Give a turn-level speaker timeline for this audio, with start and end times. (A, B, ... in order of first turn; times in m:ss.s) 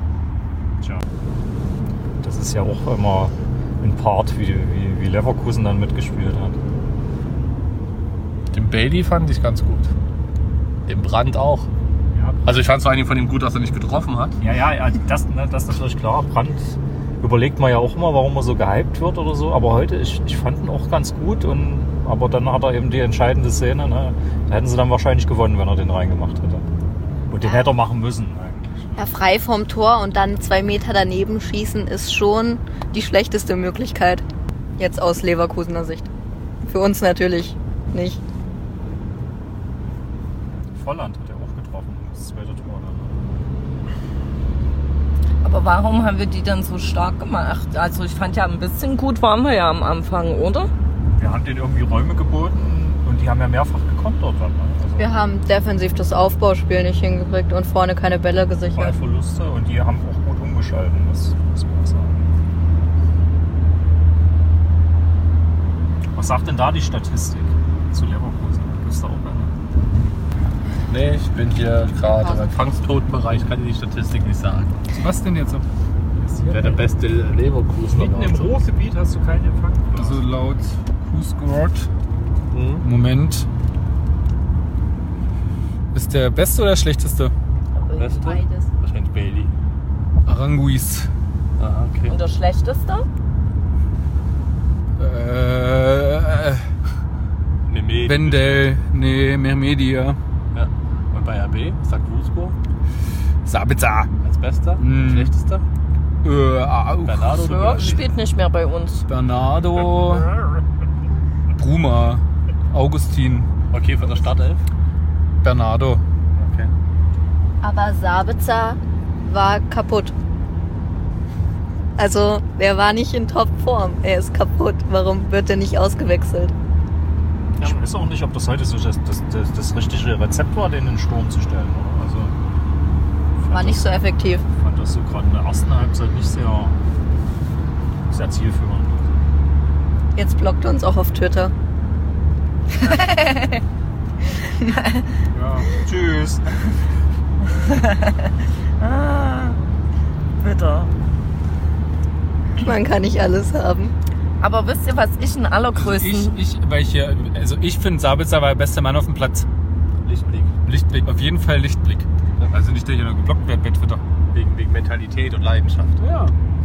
0:02.2-0:06.6 A
0:08.5-0:09.9 B
0:10.9-0:11.7 B
0:12.1-0:12.6 A
0:12.4-0:14.4 B
0:14.4-0:26.6 A
0:27.3-0:29.0 A
0:27.4-0:27.7 C
0:29.0-0:34.2 C
0:34.8-0:36.1 C
0:36.7-0:38.2 C
0:40.7-0:43.2 A
0:45.4-0:50.7 D
0:51.2-0:55.1 A
0:55.0-0:59.0 C
0:58.7-1:02.3 A
1:06.2-1:09.5 A
1:10.9-1:14.8 B
1:12.2-1:12.5 C
1:14.9-1:15.6 E
1:16.2-1:16.8 A
1:16.5-1:18.6 B
1:17.9-1:20.2 A
1:19.9-1:21.9 E
1:22.5-1:22.8 B
1:22.8-1:23.5 E
1:25.9-1:27.3 E
1:27.8-1:28.6 D
1:28.0-1:29.5 B
1:30.2-1:31.1 E
1:31.6-1:32.2 B
1:32.1-1:33.1 D
1:35.0-1:36.6 E
1:37.6-1:38.7 B
1:38.0-1:40.2 E
1:40.5-1:42.6 B
1:43.4-1:44.1 E
1:44.2-1:45.6 B
1:44.8-1:45.3 E
1:46.2-1:48.0 E
1:47.0-1:48.0 B
1:47.4-1:49.0 D
1:49.1-1:50.3 E
1:51.6-1:53.5 E
1:53.7-1:54.6 B
1:55.4-1:56.0 E
1:56.4-1:56.7 B
1:57.6-2:00.1 C
2:02.0-2:06.5 C
2:07.6-2:12.4 A
2:13.4-2:14.0 A
2:13.5-2:14.4 C
2:14.5-2:16.8 A
2:18.1-2:19.1 A
2:20.2-2:21.5 C
2:22.7-2:23.6 D
2:24.6-2:25.0 D
2:25.3-2:26.4 A
2:27.4-2:29.6 D
2:30.4-2:30.9 D
2:32.6-2:33.9 C
2:34.4-2:36.4 D
2:35.8-2:39.4 E
2:40.0-2:40.5 B
2:40.6-2:44.0 E
2:44.3-2:46.1 B
2:46.0-2:46.3 E